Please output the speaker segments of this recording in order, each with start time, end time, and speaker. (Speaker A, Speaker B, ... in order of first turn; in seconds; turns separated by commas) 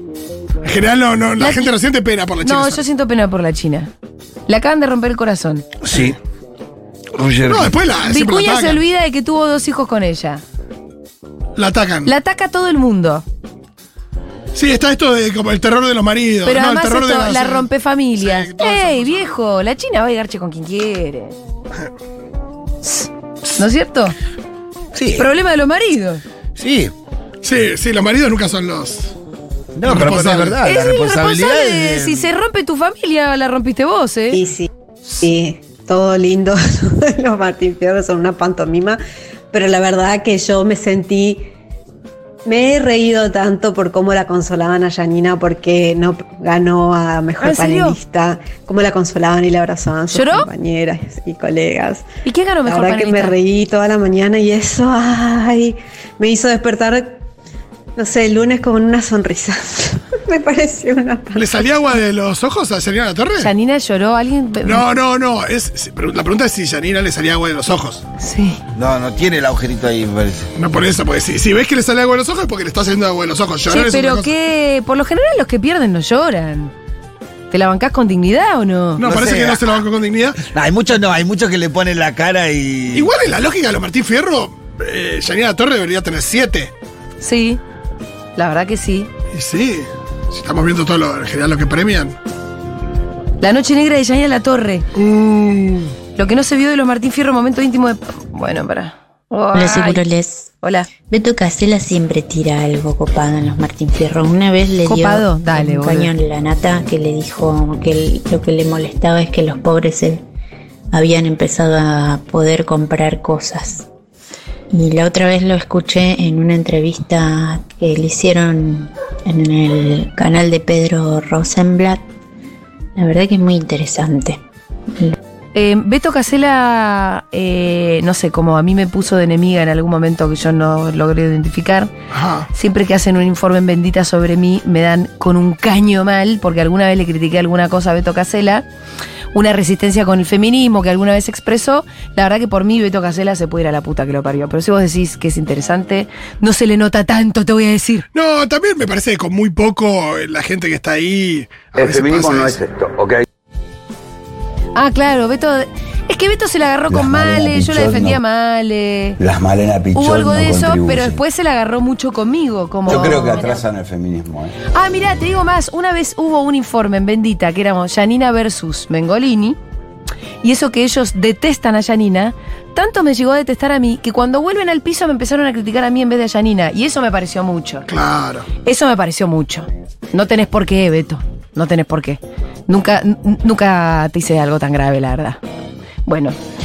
Speaker A: 0.6-2.8, Speaker B: 1.4-1.7, Speaker B: 2.4-3.9, Speaker B: 4.5-5.7, Speaker C: 5.8-6.2, Speaker A: 5.9-6.2, Speaker C: 7.1-7.8, Speaker A: 7.5-8.8, Speaker B: 8.1-10.4, Speaker A: 11.6-12.1, Speaker B: 12.1-13.2, Speaker A: 14.5-19.4, Speaker B: 16.4-21.4, Speaker B: 22.8-24.1, Speaker C: 24.9-25.3, Speaker B: 25.2-26.2, Speaker C: 26.6-26.9, Speaker A: 27.4-29.1, Speaker C: 29.8-32.3, Speaker A: 29.9-30.6, Speaker B: 30.6-34.4, Speaker D: 34.3-34.7, Speaker D: 35.2-39.0, Speaker D: 39.5-41.4, Speaker D: 42.5-52.0, Speaker B: 47.4-48.0, Speaker B: 50.1-50.5, Speaker B: 52.2-53.4, Speaker D: 52.7-57.2, Speaker D: 58.0-61.5, Speaker A: 61.4-63.5, Speaker B: 63.4-64.8, Speaker A: 64.6-68.0, Speaker B: 68.2-68.6, Speaker C: 68.7-70.5, Speaker A: 70.6-74.3, Speaker B: 73.7-76.7, Speaker B: 77.5-79.0, Speaker A: 79.0-80.4, Speaker C: 79.0-79.7, Speaker C: 80.5-83.1, Speaker A: 82.9-86.7, Speaker B: 87.2-87.6, Speaker B: 88.4-89.1, Speaker A: 89.3-92.2, Speaker B: 93.4-94.9, Speaker A: 95.0-95.9, Speaker B: 96.2-100.0, Speaker E: 99.5-110.2, Speaker B: 100.6-100.9, Speaker B: 104.8-106.1, Speaker E: 110.9-113.9, Speaker E: 114.7-122.0, Speaker E: 123.0-124.4, Speaker B: 125.5-131.9, Speaker A: 132.1-132.5, Speaker B: 132.5-138.6, Speaker B: 139.3-148.1, Speaker A: 148.1-152.6, Speaker C: 151.8-152.5, Speaker F: 151.9-153.1, Speaker B: 154.8-159.2, Speaker F: 156.9-158.2, Speaker F: 159.2-161.2, Speaker B: 159.9-163.6, Speaker F: 162.9-164.6, Speaker B: 164.7-169.6, Speaker B: 170.4-177.9, Speaker A: 177.9-178.5, Speaker B: 178.6-185.4, Speaker B: 186.1-186.4